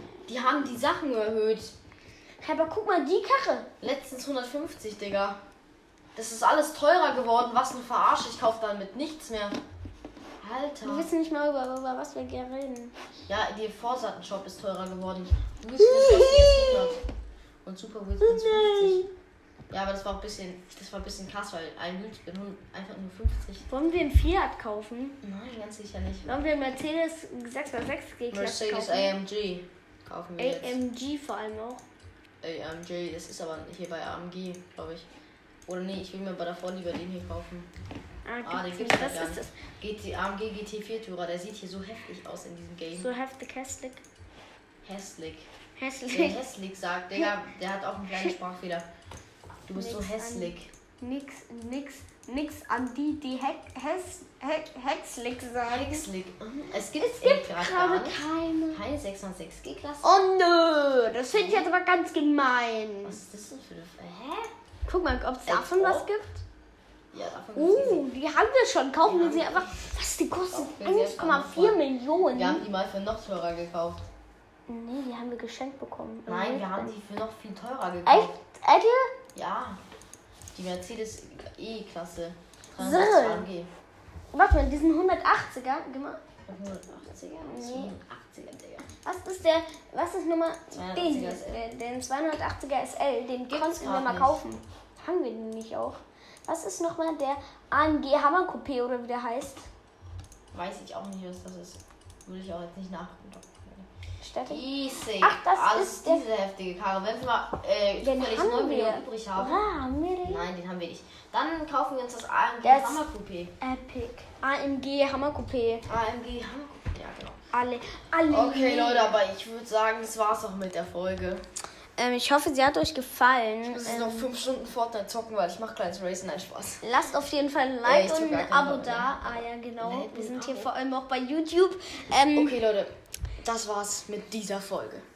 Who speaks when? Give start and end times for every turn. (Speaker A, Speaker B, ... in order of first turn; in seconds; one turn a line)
Speaker A: 0.3-1.7
Speaker B: 2.4-3.7
Speaker A: 3.8-5.4
Speaker A: 6.2-9.6
Speaker A: 10.4-11.1
Speaker B: 10.8-12.9
Speaker A: 13.3-17.0
Speaker B: 15.8-17.0
Speaker A: 17.6-19.0
Speaker B: 18.2-19.1
Speaker A: 19.7-23.7
Speaker B: 23.7-25.2
Speaker A: 25.2-26.4
Speaker B: 26.2-29.2
Speaker A: 28.3-30.8
Speaker B: 30.4-31.9
Speaker A: 32.4-35.1
Speaker A: 35.7-37.7
Speaker B: 38.2-39.5
Speaker A: 38.4-43.1
Speaker B: 42.9-44.0
Speaker A: 44.8-45.5
Speaker B: 45.8-46.4
Speaker A: 46.1-48.9
Speaker A: 49.7-50.7
Speaker B: 49.7-56.0
Speaker A: 55.6-60.2
Speaker B: 56.7-58.8
Speaker B: 60.0-63.2
Speaker A: 61.3-61.7
Speaker A: 63.0-64.5
Speaker B: 64.8-66.4
Speaker A: 65.4-66.1
Speaker A: 67.1-68.1
Speaker B: 67.5-72.7
Speaker A: 69.0-69.9
Speaker A: 70.5-74.1
Speaker B: 74.7-77.0
Speaker A: 76.2-78.4
Speaker B: 78.0-79.2
Speaker A: 79.3-79.8
Speaker A: 80.5-83.7
Speaker B: 82.8-83.5
Speaker B: 84.3-86.2
Speaker A: 86.5-88.9
Speaker B: 87.4-88.0
Speaker B: 89.0-99.7
Speaker A: 90.7-91.6
Speaker A: 93.5-94.4
Speaker A: 100.5-103.9
Speaker B: 104.2-106.3
Speaker A: 104.5-109.7
Speaker B: 108.0-110.5
Speaker A: 110.2-113.6
Speaker B: 112.6-113.0
Speaker B: 113.6-115.9
Speaker A: 115.8-117.4
Speaker B: 117.5-119.2
Speaker A: 118.3-121.4
Speaker B: 122.0-124.4
Speaker A: 123.6-126.8
Speaker B: 126.8-132.6
Speaker A: 127.8-130.7
Speaker A: 132.3-135.1